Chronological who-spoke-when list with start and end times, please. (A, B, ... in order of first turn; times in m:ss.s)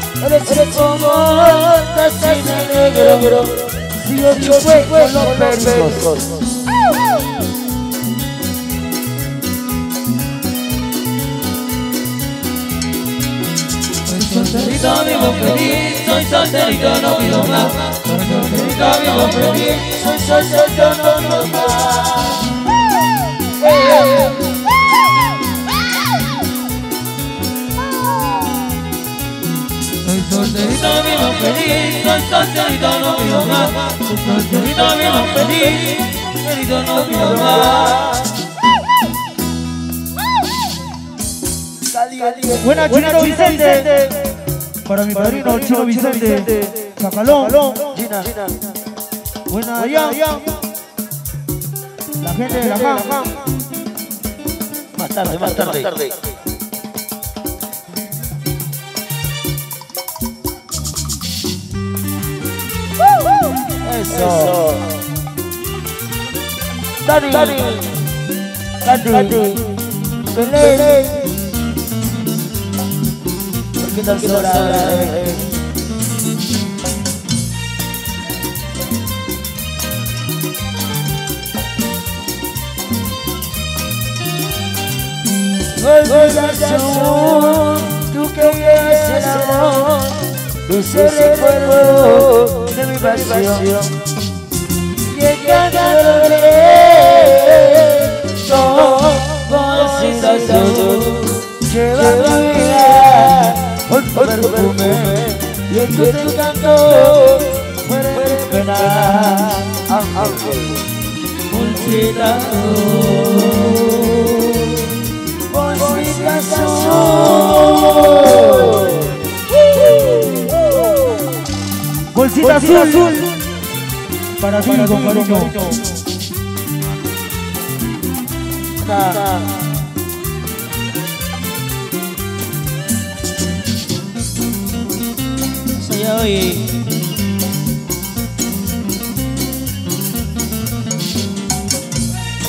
0:00.2-0:06.3 A
0:14.0-0:19.7 B
0:19.1-0:22.6 A
0:30.0-0:38.0 B
0:37.6-0:38.3 A
0:41.9-0:42.8 A
0:42.6-0:44.2 C
0:44.8-0:48.0 C
0:47.9-0:48.5 A
0:49.5-0:50.5 C
0:52.2-0:53.4 C
0:55.0-0:56.0 A
1:03.8-1:04.6 A
1:07.0-1:07.9 A
1:08.8-1:09.7 A
1:10.3-1:11.3 A
1:13.8-1:15.4 A
1:25.8-1:33.9 A
1:35.0-1:50.6 A
1:51.5-1:54.4 D
1:51.6-1:52.9 B
1:53.4-1:53.8 B
1:55.5-1:59.1 A
2:02.1-2:03.2 C
2:04.4-2:05.8 C
2:08.9-2:09.2 A
2:15.7-2:16.9 D